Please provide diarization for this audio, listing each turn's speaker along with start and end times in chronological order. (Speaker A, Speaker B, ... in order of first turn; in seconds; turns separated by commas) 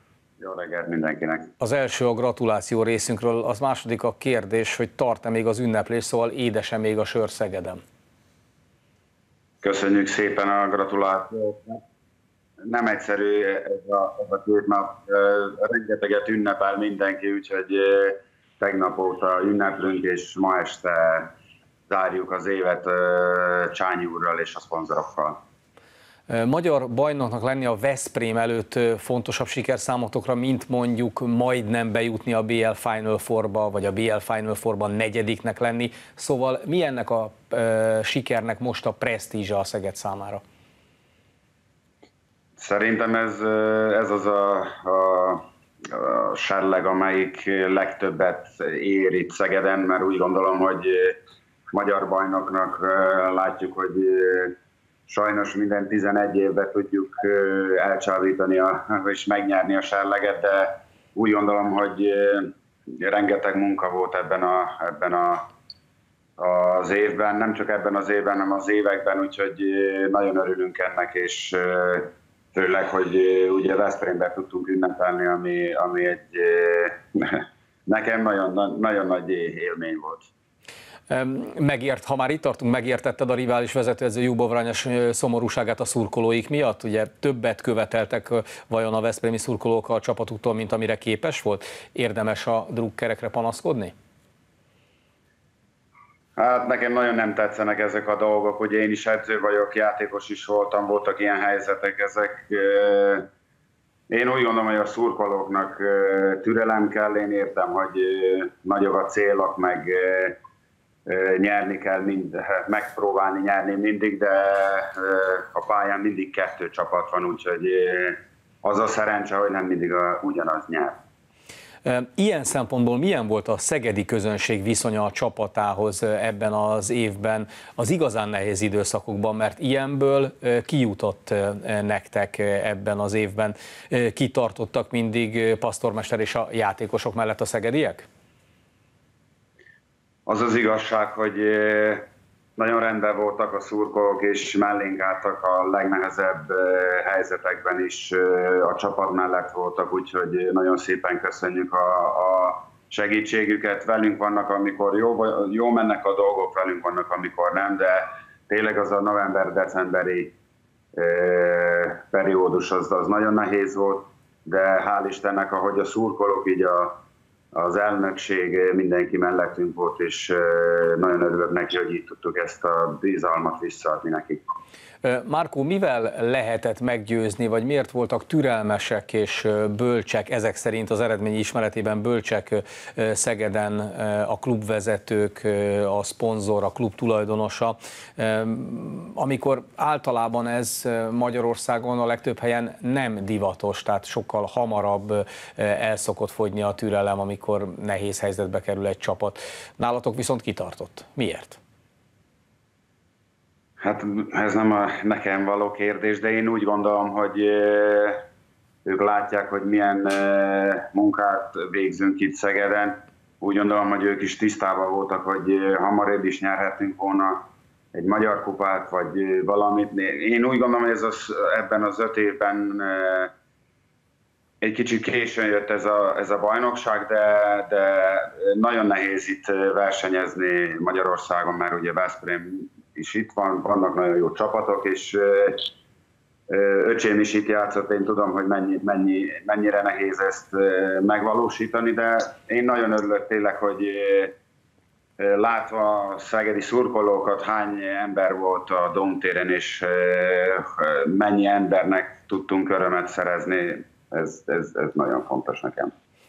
Speaker A: 0.4-1.5, Speaker B: 1.6-7.8, Speaker A: 9.6-11.8, Speaker A: 12.6-21.3, Speaker A: 21.9-25.4, Speaker B: 26.3-40.4, Speaker A: 42.6-51.2, Speaker A: 51.7-54.5, Speaker A: 55.1-65.5, Speaker A: 66.4-80.3, Speaker B: 81.1-93.9, Speaker A: 96.4-103.3, Speaker A: 104.1-110.4, Speaker A: 111.1-121.0, Speaker B: 121.8-138.1, Speaker A: 140.2-160.3, Speaker A: 160.9-167.0, Speaker A: 167.5-174.4, Speaker B: 175.0-201.6, Speaker A: 203.8-208.2, Speaker A: 208.8-223.3, Speaker A: 224.6-235.7, Speaker A: 236.5-244.3, Speaker A: 245.2-255.9